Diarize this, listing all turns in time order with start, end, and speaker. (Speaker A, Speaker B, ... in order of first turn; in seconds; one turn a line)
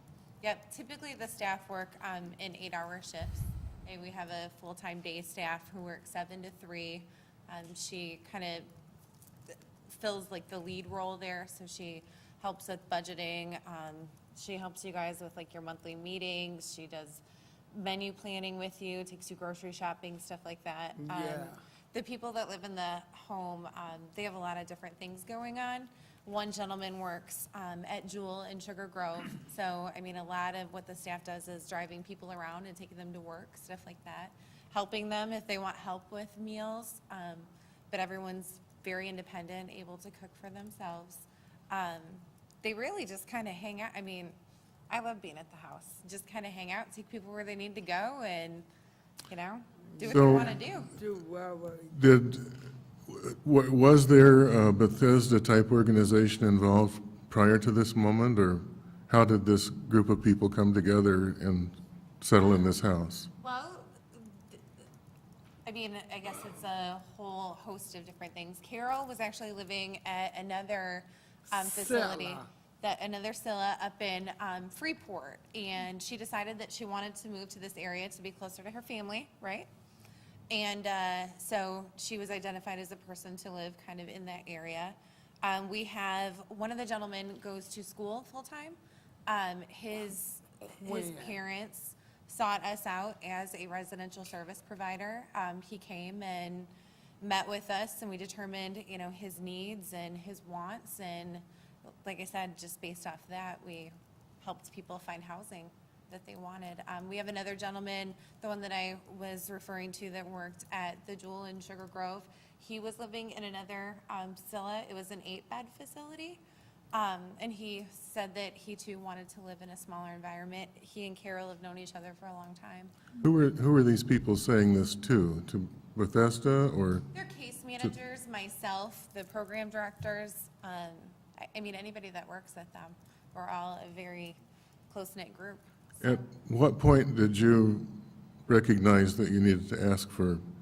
Speaker A: 0.4-8.7
Speaker A: 9.5-44.4
Speaker B: 21.0-21.6
Speaker A: 44.9-48.7
Speaker A: 49.3-50.9
Speaker B: 49.9-52.0
Speaker C: 50.1-50.5
Speaker C: 51.9-63.3
Speaker A: 63.4-64.6
Speaker A: 65.7-79.7
Speaker B: 71.5-72.5
Speaker A: 80.5-101.4
Speaker B: 90.6-91.3
Speaker A: 102.0-116.4
Speaker A: 116.9-122.9
Speaker C: 123.2-127.1
Speaker A: 127.1-135.7
Speaker C: 136.0-140.4